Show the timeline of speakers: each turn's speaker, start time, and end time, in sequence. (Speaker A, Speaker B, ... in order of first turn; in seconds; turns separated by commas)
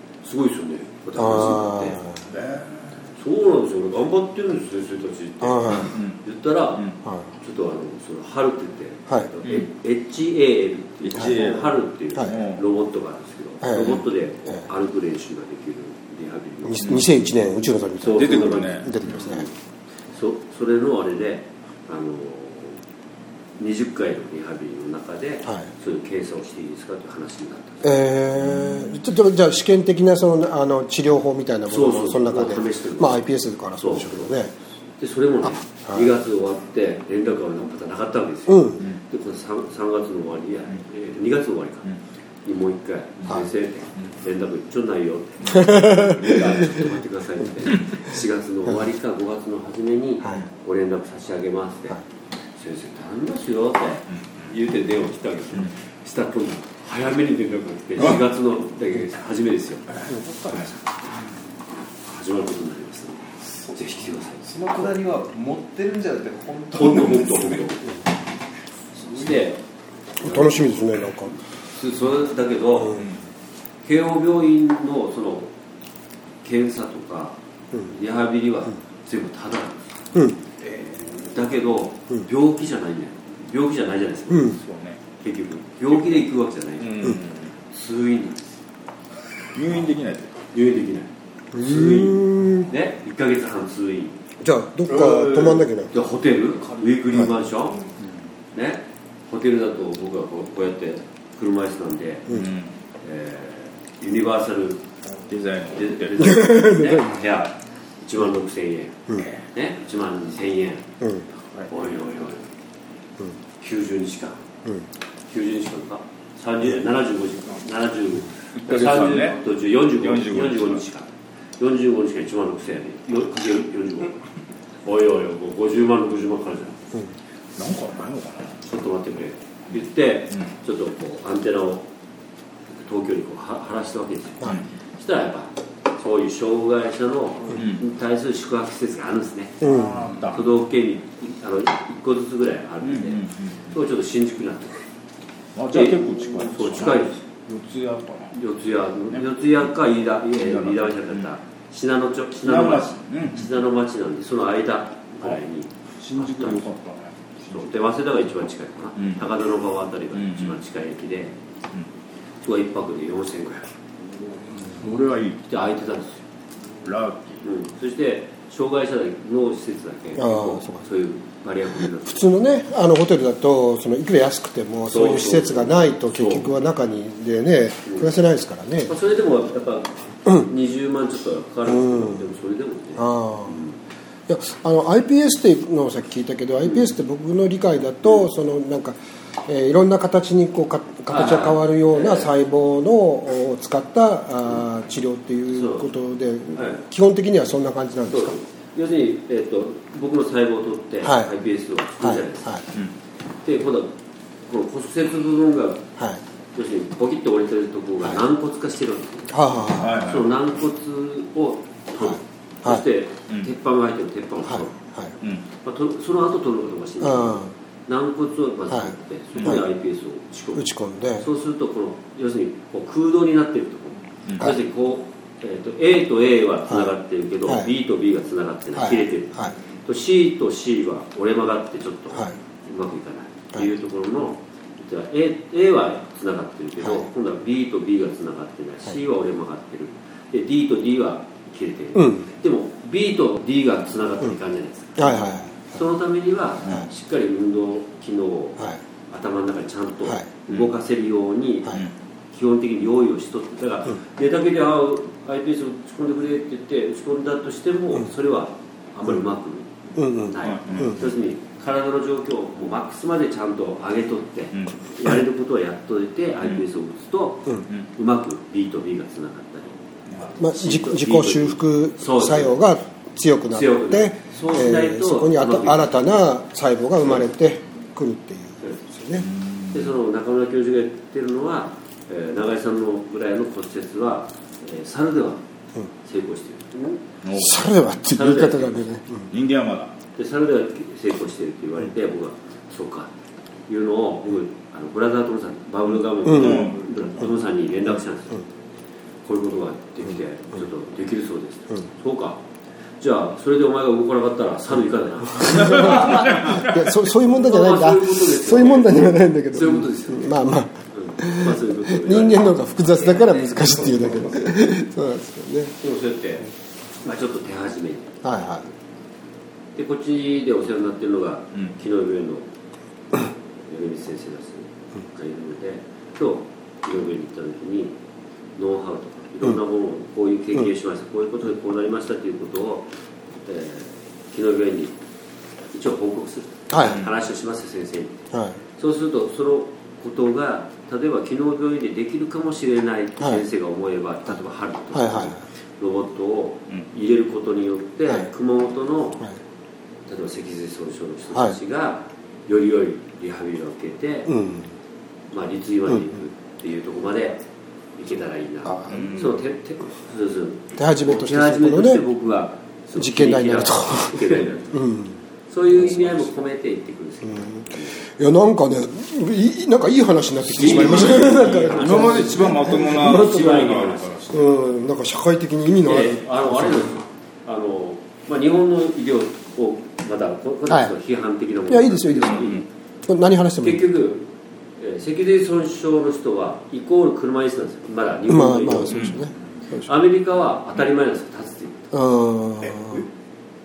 Speaker A: 0.2-2.0, Speaker B: 1.1-2.1, Speaker C: 2.3-2.9, Speaker A: 3.2-6.8, Speaker B: 5.4-5.9, Speaker C: 5.8-6.2, Speaker A: 7.4-17.0, Speaker C: 11.1-12.6, Speaker B: 13.6-14.0, Speaker B: 16.6-19.5, Speaker C: 16.8-17.1, Speaker A: 18.0-19.5, Speaker C: 18.1-19.3, Speaker A: 20.1-22.8, Speaker A: 23.6-28.0, Speaker B: 27.8-34.5, Speaker C: 28.6-28.8, Speaker A: 31.7-33.2, Speaker A: 33.8-34.3, Speaker A: 35.0-41.9, Speaker B: 38.5-38.8, Speaker A: 42.4-52.0, Speaker B: 45.5-46.4, Speaker A: 52.6-60.8, Speaker C: 60.0-60.7, Speaker A: 62.0-64.4, Speaker D: 64.4-67.8, Speaker A: 66.7-67.8, Speaker A: 69.0-69.6, Speaker A: 70.2-70.9, Speaker B: 70.2-71.3, Speaker A: 71.8-73.0, Speaker B: 72.8-73.1, Speaker A: 73.8-75.5, Speaker A: 76.4-79.8, Speaker C: 80.7-80.9, Speaker A: 81.1-84.6, Speaker B: 84.3-84.5, Speaker C: 84.5-85.0, Speaker A: 85.2-87.2, Speaker C: 85.9-86.2, Speaker C: 86.8-87.5, Speaker A: 87.7-88.4, Speaker C: 89.5-90.3, Speaker A: 90.5-94.2, Speaker B: 91.5-92.7, Speaker B: 94.4-95.9, Speaker D: 94.9-95.6, Speaker A: 95.9-97.8, Speaker A: 98.5-102.3, Speaker C: 102.3-102.7, Speaker A: 103.0-104.8, Speaker C: 105.3-106.4, Speaker A: 105.7-110.9, Speaker B: 106.2-107.1, Speaker A: 111.7-112.4, Speaker A: 113.6-114.4, Speaker A: 115.3-124.2, Speaker C: 118.6-120.8, Speaker A: 124.8-126.9, Speaker C: 127.5-129.0, Speaker A: 128.6-131.9, Speaker A: 132.7-139.7, Speaker C: 137.5-137.8, Speaker B: 139.6-140.1, Speaker C: 139.6-140.5, Speaker A: 140.3-144.8, Speaker C: 142.8-143.6, Speaker C: 145.5-148.3, Speaker A: 145.7-147.2, Speaker A: 148.3-156.7, Speaker C: 149.1-149.6, Speaker C: 150.4-151.2, Speaker C: 152.4-153.5, Speaker C: 156.0-157.7, Speaker A: 157.5-161.3, Speaker C: 159.0-159.2, Speaker C: 160.1-160.6, Speaker A: 162.4-163.7, Speaker C: 164.6-165.4, Speaker A: 165.4-166.2, Speaker C: 166.8-167.4, Speaker A: 167.4-172.3, Speaker B: 170.2-170.8, Speaker B: 171.8-178.9, Speaker A: 174.9-176.5, Speaker A: 177.8-178.1, Speaker A: 178.8-183.8, Speaker B: 181.7-182.2, Speaker B: 183.0-183.6, Speaker B: 184.3-198.4, Speaker A: 191.1-192.3, Speaker A: 195.5-195.9, Speaker A: 196.5-196.8, Speaker A: 198.1-202.5, Speaker B: 201.0-201.3, Speaker B: 202.0-202.6, Speaker A: 203.4-205.9, Speaker A: 206.5-209.4, Speaker B: 209.3-210.0, Speaker C: 209.8-210.3, Speaker A: 210.0-214.7, Speaker B: 212.0-212.8, Speaker B: 214.5-215.1, Speaker A: 215.6-220.7, Speaker B: 217.0-217.5, Speaker B: 218.7-219.6, Speaker C: 219.4-219.6, Speaker B: 220.5-221.2, Speaker A: 221.2-272.6, Speaker B: 228.8-229.5, Speaker B: 241.9-242.3, Speaker B: 245.0-245.5, Speaker B: 259.9-260.9, Speaker C: 260.4-261.0, Speaker B: 270.4-279.2, Speaker A: 273.5-276.1, Speaker C: 279.2-279.9, Speaker A: 279.7-285.4, Speaker A: 286.0-287.0, Speaker C: 287.2-287.7, Speaker B: 287.4-289.3, Speaker A: 288.1-288.8, Speaker C: 289.3-289.9, Speaker A: 290.2-293.1, Speaker A: 293.7-298.4, Speaker C: 296.2-296.8, Speaker B: 296.2-296.7, Speaker A: 299.2-302.4, Speaker A: 303.0-306.6, Speaker C: 305.4-306.8, Speaker B: 305.4-315.8, Speaker A: 307.3-314.4, Speaker A: 315.8-316.5, Speaker A: 317.0-318.1, Speaker B: 318.2-318.6, Speaker A: 319.8-322.5, Speaker A: 323.7-327.9, Speaker A: 328.6-332.9, Speaker A: 333.4-334.9, Speaker A: 335.7-338.1, Speaker B: 336.7-337.0, Speaker C: 336.8-337.1, Speaker B: 338.3-338.6, Speaker A: 338.8-349.3, Speaker B: 344.9-345.4, Speaker A: 350.1-354.3, Speaker B: 354.3-354.7, Speaker A: 355.3-357.4, Speaker A: 358.0-364.9, Speaker B: 358.6-359.1, Speaker C: 358.9-359.4, Speaker B: 360.8-362.0, Speaker B: 362.9-365.2, Speaker A: 365.5-368.0, Speaker B: 367.3-373.8, Speaker A: 370.6-374.1, Speaker C: 370.6-374.5, Speaker B: 374.3-376.9, Speaker A: 375.8-382.6, Speaker B: 381.7-382.5, Speaker C: 382.2-382.6, Speaker B: 383.1-383.9, Speaker A: 383.6-389.0, Speaker B: 388.3-389.9, Speaker C: 388.9-389.3, Speaker A: 389.8-391.9, Speaker B: 391.9-393.0